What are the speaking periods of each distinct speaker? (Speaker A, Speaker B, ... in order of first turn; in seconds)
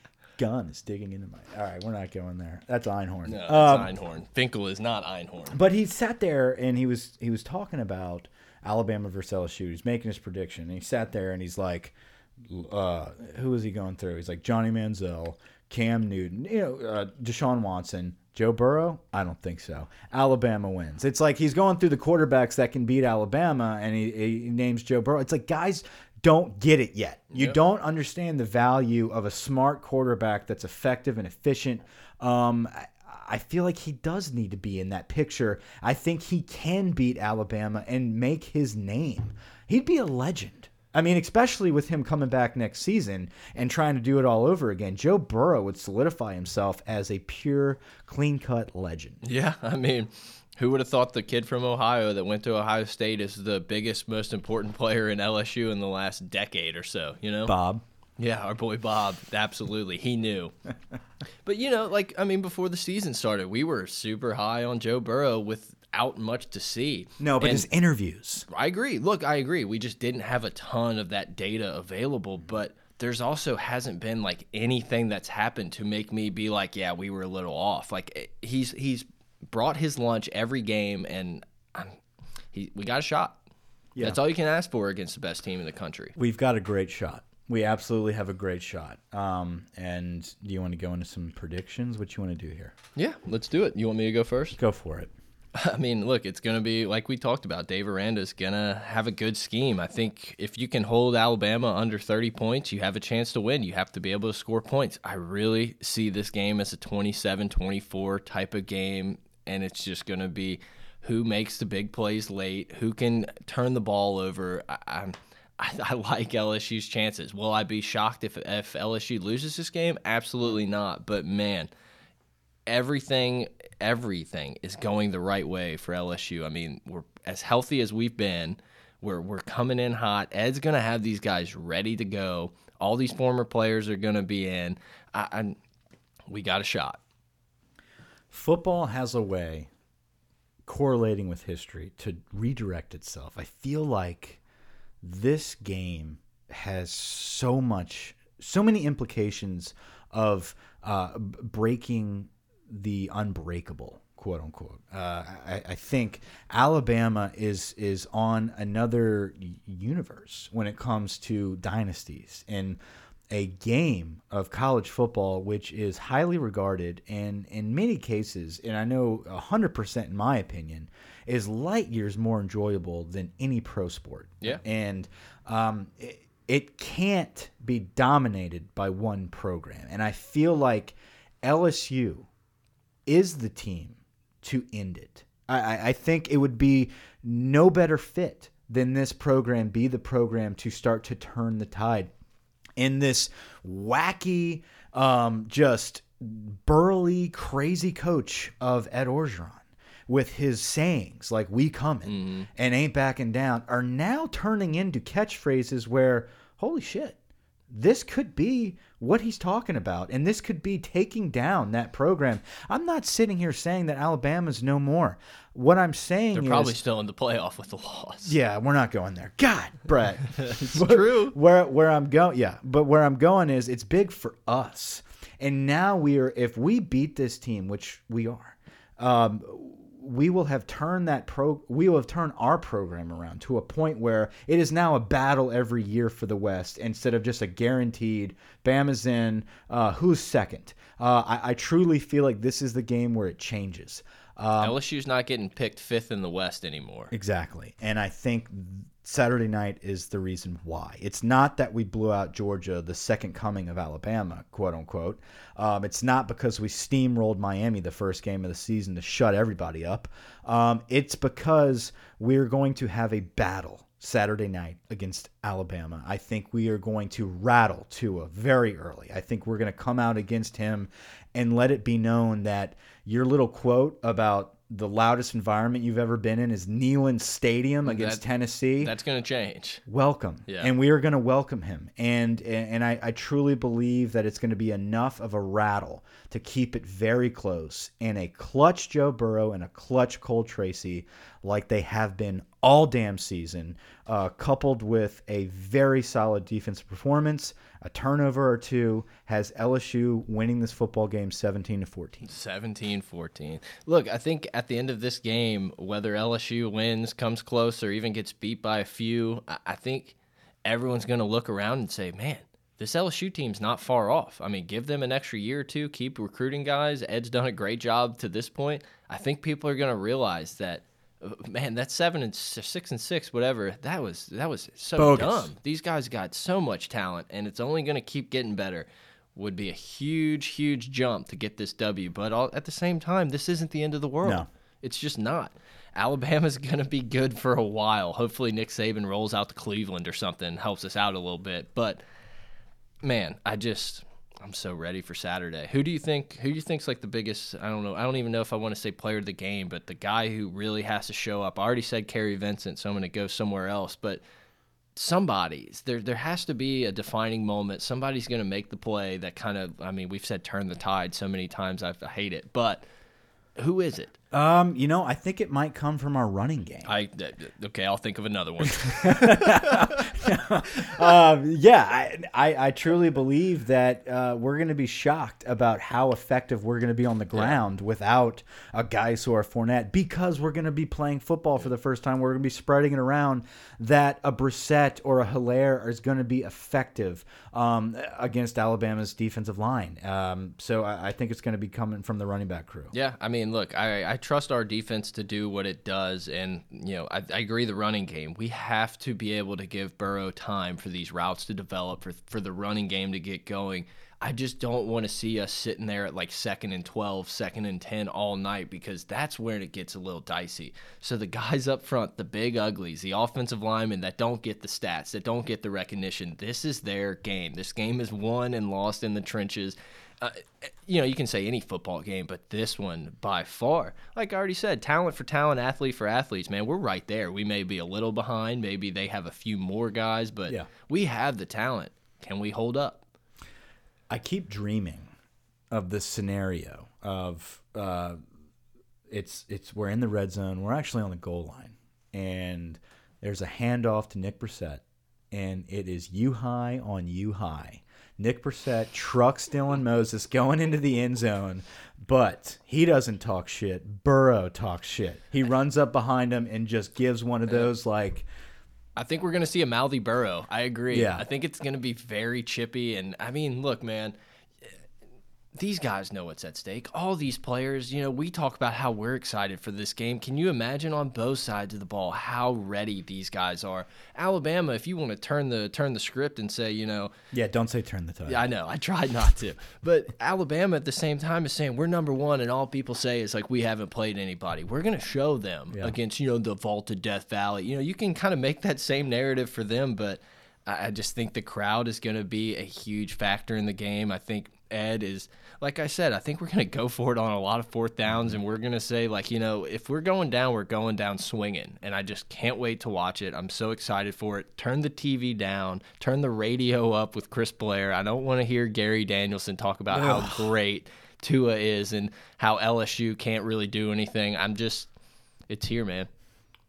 Speaker A: 0.4-3.9, 5.5-49.2, 57.5-57.8, 67.2-68.5, 86.2-92.7, 94.6-95.1, 138.3-139.7, 140.7-144.4, 145.0-162.8, 163.3-182.3, 183.1-192.1, 192.8-207.2, 207.7-216.8, 218.2-244.8, 247.1-278.9, 279.9-302.3, 325.0-325.5, 364.3-366.9, 368.7-392.9, 434.1-435.1, 435.7-438.2, 439.1-458.3, 460.9-461.2, 477.3-478.5, 485.7-485.9, 509.9-510.5
Speaker B: 3.2-5.6, 49.2-57.5, 58.2-60.5, 61.4-67.7, 68.5-82.0, 82.5-83.4, 84.0-86.2, 93.0-94.6, 95.5-121.7, 122.7-135.6, 136.3-137.0, 202.1-202.5, 216.3-218.3, 220.3-221.3, 244.6-247.1, 277.8-278.2, 278.8-279.8, 302.2-342.0, 343.0-354.2, 354.9-362.8, 363.6-364.2, 366.9-370.1, 392.9-433.0, 458.9-464.1, 465.5-477.1, 478.3-514.9, 515.5-516.1